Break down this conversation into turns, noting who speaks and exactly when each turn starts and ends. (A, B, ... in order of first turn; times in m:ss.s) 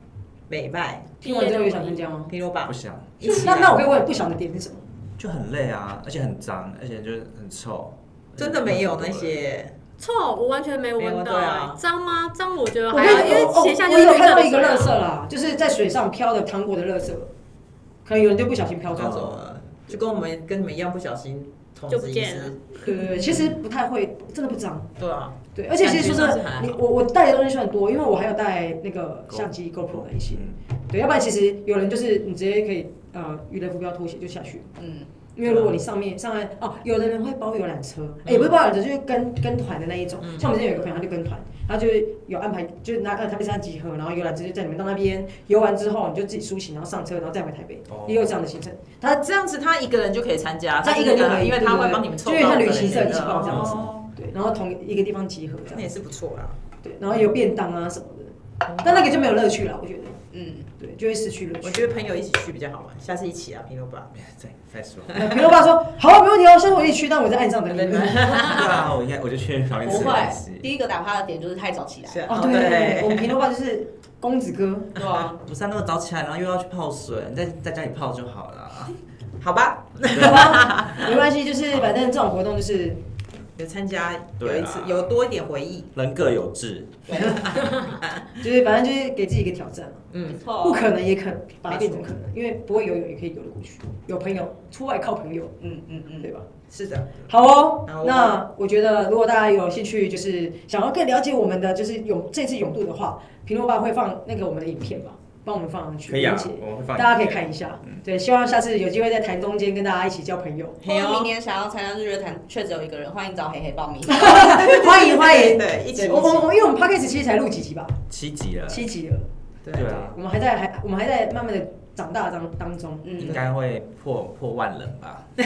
0:00.5-0:01.2 A
0:01.2-0:02.1 B
0:01.2-0:02.3 C
0:02.3-0:03.9 A
0:02.6-0:03.3 D
0:03.2-0:04.8 C
0:05.2-0:09.4 D
0:08.4-0:09.7 A
0:10.0-0:15.0 B
0:11.0-0:11.8 A
0:12.9-0:17.3 C
0:18.0-0:19.3 C
0:18.9-0:19.4 D
0:18.9-0:22.6 A
0:21.9-0:22.6 B
0:22.8-0:24.9 C
0:25.0-0:26.8 A
0:25.5-0:34.7 C
0:29.3-0:30.5 D
0:34.8-0:35.1 E
0:35.4-0:49.2 C
0:35.4-0:35.8 D
0:38.2-0:38.6 A
0:40.2-0:40.5 A
0:47.9-0:48.3 D
0:49.2-0:54.1 A
0:50.8-0:55.8 C
0:53.4-0:54.0 D
0:55.7-0:56.6 A
0:56.8-1:00.2 C
0:58.6-0:59.1 A
1:00.3-1:00.7 E
1:00.8-1:02.0 C
1:01.6-1:04.1 A
1:04.1-1:05.2 D
1:05.1-1:08.7 C
1:07.7-1:08.9 A
1:08.4-1:10.6 D
1:09.8-1:12.3 E
1:12.1-1:13.3 A
1:12.3-1:15.0 C
1:15.0-1:15.4 E
1:15.0-1:15.2 A
1:15.4-1:18.9 D
1:19.4-1:21.1 A
1:20.1-1:23.0 C
1:20.1-1:20.8 D
1:23.6-1:25.9 A
1:24.4-1:25.2 D
1:25.9-1:27.2 D
1:27.1-1:27.4 E
1:27.2-1:27.6 C
1:27.4-1:28.0 A
1:28.4-1:35.6 C
1:30.1-1:30.4 A
1:30.3-1:30.9 E
1:31.7-1:32.1 A
1:35.6-1:36.3 E
1:36.2-1:36.5 C
1:36.7-1:37.3 A
1:37.3-1:50.8 C
1:37.8-1:38.4 A
1:46.1-1:48.0 D
1:50.8-1:54.5 E
1:50.8-1:51.3 A
1:54.1-1:58.0 C
1:54.3-1:56.5 A
1:58.1-1:58.8 D
1:58.7-1:59.2 C
1:59.6-2:00.0 A
1:59.7-2:00.1 D
1:59.8-2:03.3 C
2:03.0-2:03.4 E
2:03.2-2:05.3 D